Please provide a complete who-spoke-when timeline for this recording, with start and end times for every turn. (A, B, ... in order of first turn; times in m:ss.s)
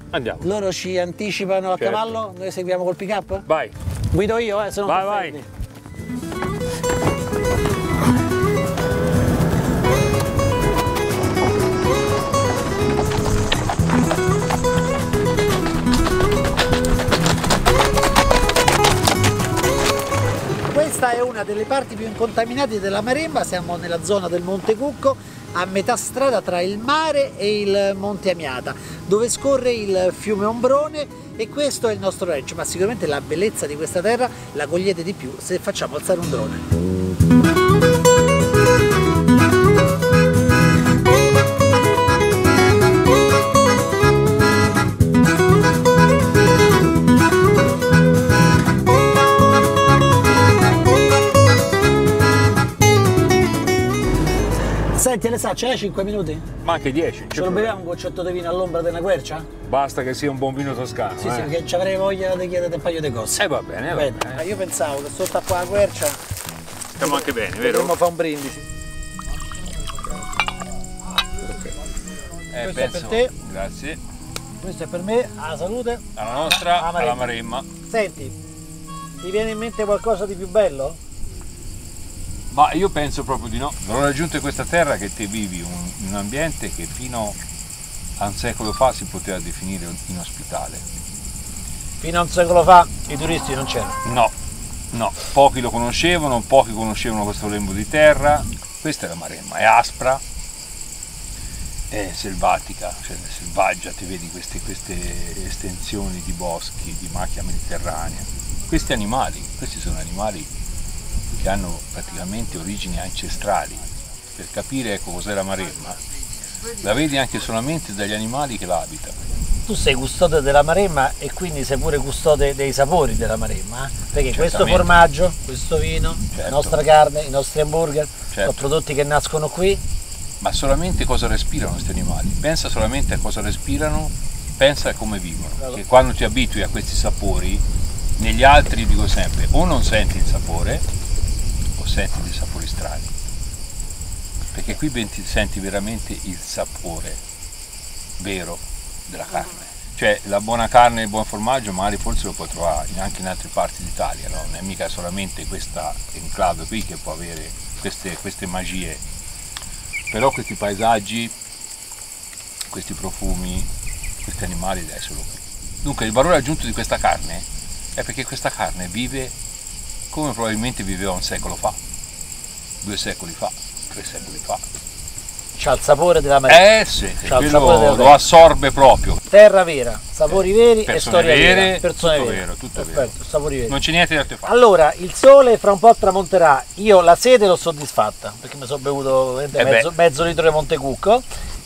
0:00.1-0:00.4 A
0:00.4-0:03.5 B
0:01.7-0:02.2 A
0:03.5-0:03.8 A
0:04.1-0:05.4 B
0:04.9-0:05.4 A
0:20.7-0:36.6 B
0:54.9-0:56.5 B
0:56.6-0:57.8 A
0:57.3-0:59.5 B
0:59.6-1:01.5 A
1:01.2-1:06.2 B
1:03.4-1:04.4 A
1:07.0-1:08.0 A
1:07.0-1:08.7 B
1:12.5-1:14.0 A
1:12.6-1:13.3 B
1:14.6-1:17.3 B
1:16.2-1:17.7 A
1:17.9-1:18.4 B
1:19.2-1:21.0 B
1:22.5-1:27.4 A
1:28.2-1:30.8 A
1:32.0-1:34.0 B
1:34.0-1:34.3 A
1:34.9-1:40.2 A
1:41.9-1:50.5 A
1:51.4-1:56.0 A
1:56.8-1:59.2 A
1:59.7-2:09.8 B
2:04.3-2:05.0 A
2:06.3-2:06.8 A
2:10.4-2:17.6 A
2:18.2-2:20.8 A
2:21.8-2:23.1 A
2:24.5-2:27.2 A
2:28.2-2:39.0 A
2:40.1-2:41.3 A
2:42.7-2:43.7 A
2:44.2-2:49.3 A
2:50.1-2:51.8 A
2:52.8-2:54.6 A
2:55.6-2:56.7 B
2:56.5-2:59.2 A
2:57.2-2:58.2 B
2:59.3-3:03.8 B
3:00.3-3:03.2 A
3:03.7-3:04.5 A
3:04.4-3:11.2 B
3:09.6-3:09.9 A